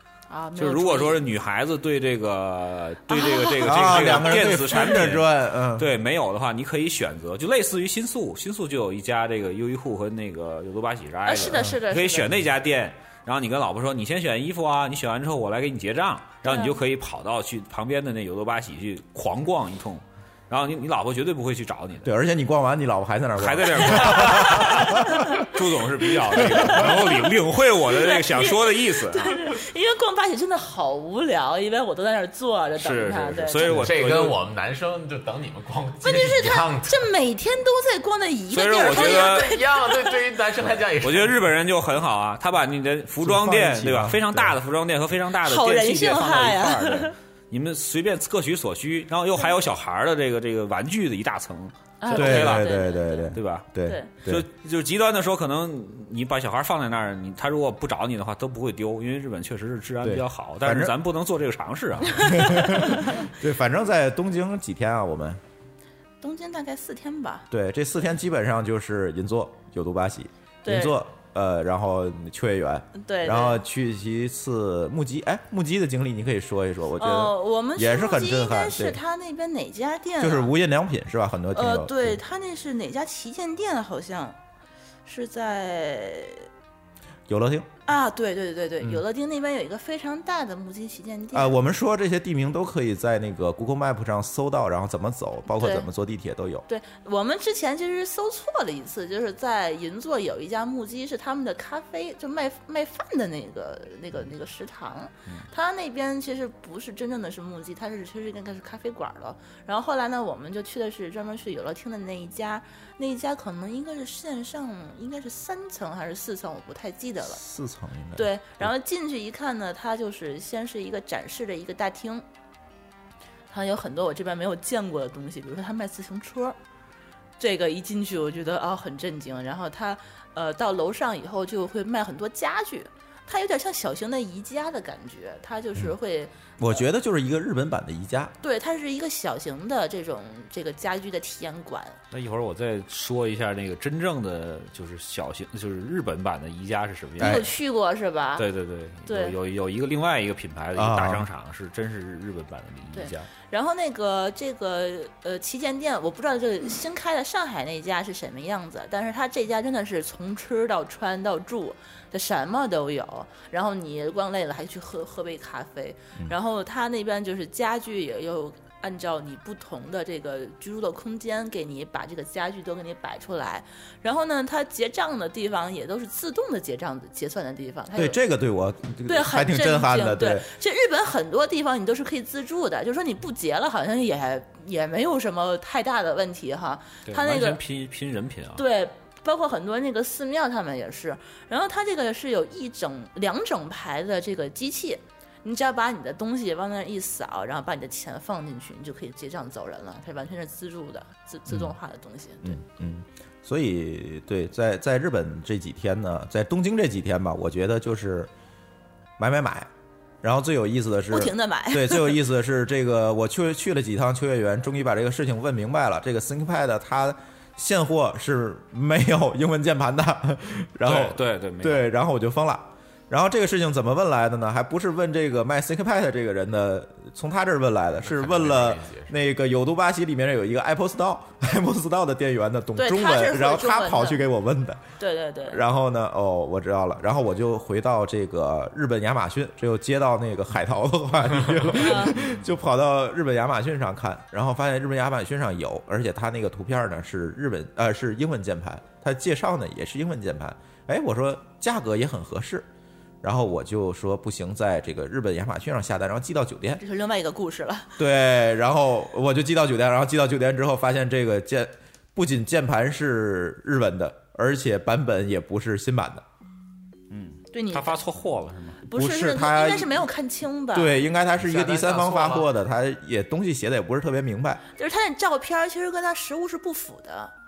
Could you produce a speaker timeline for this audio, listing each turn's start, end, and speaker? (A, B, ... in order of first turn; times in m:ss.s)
0:00.3-0:01.2 A
0:00.6-0:22.1 B
0:03.1-0:04.9 A
0:03.6-0:05.9 C
0:11.3-0:12.3 A
0:16.4-0:16.8 A
0:22.0-0:25.3 C
0:23.4-0:29.5 B
0:24.5-0:25.4 A
0:26.4-0:27.0 C
0:26.6-0:27.3 A
0:27.9-0:33.8 A
0:32.8-0:34.4 B
0:33.7-0:37.1 D
0:36.0-0:40.1 A
0:38.5-0:39.5 B
0:38.8-0:41.5 D
0:41.0-0:52.8 B
0:43.2-0:44.6 C
0:45.4-0:47.1 A
0:52.0-0:53.3 A
0:52.1-0:54.5 C
0:53.3-0:53.7 B
0:53.8-0:54.1 A
0:54.2-1:02.9 B
1:00.0-1:01.0 C
1:02.1-1:05.4 C
1:02.5-1:02.9 A
1:06.2-1:07.5 A
1:07.5-1:19.0 C
1:10.6-1:11.0 A
1:13.0-1:13.6 A
1:17.0-1:20.5 A
1:20.2-1:22.2 C
1:21.5-1:24.4 A
1:25.1-1:26.5 A
1:27.3-1:27.7 C
1:27.9-1:31.6 A
1:31.3-1:36.6 C
1:35.5-1:35.9 A
1:36.7-1:57.4 A
1:57.2-1:58.7 C
1:58.2-2:02.2 A
2:03.5-2:06.6 A
2:07.4-2:16.8 A
2:16.6-2:18.4 C
2:18.4-2:22.0 A
2:22.1-2:27.5 B
2:27.2-2:27.5 C
2:27.2-2:28.4 A
2:28.4-2:33.3 B
2:29.1-2:29.4 A
2:30.8-2:31.3 C
2:32.9-2:58.2 A
2:58.0-3:00.5 C
2:59.1-3:07.6 A
3:07.1-3:08.6 B
3:08.6-3:22.6 A
3:21.5-3:21.7 C
3:22.4-3:28.3 C
3:29.2-3:29.7 C
3:30.2-3:54.8 C
3:31.1-3:32.2 A
3:40.8-3:41.8 B
3:48.0-3:49.2 D
3:52.8-3:54.2 A
3:55.0-3:55.6 A
3:55.5-4:12.7 C
4:01.7-4:02.2 A
4:13.2-4:16.8 C
4:16.8-4:18.0 A
4:18.0-4:26.2 C
4:27.1-4:28.8 B
4:27.5-4:28.0 A
4:28.9-4:30.9 A
4:28.9-4:30.1 C
4:30.7-4:34.6 C
4:31.4-4:32.5 D
4:34.8-4:37.3 A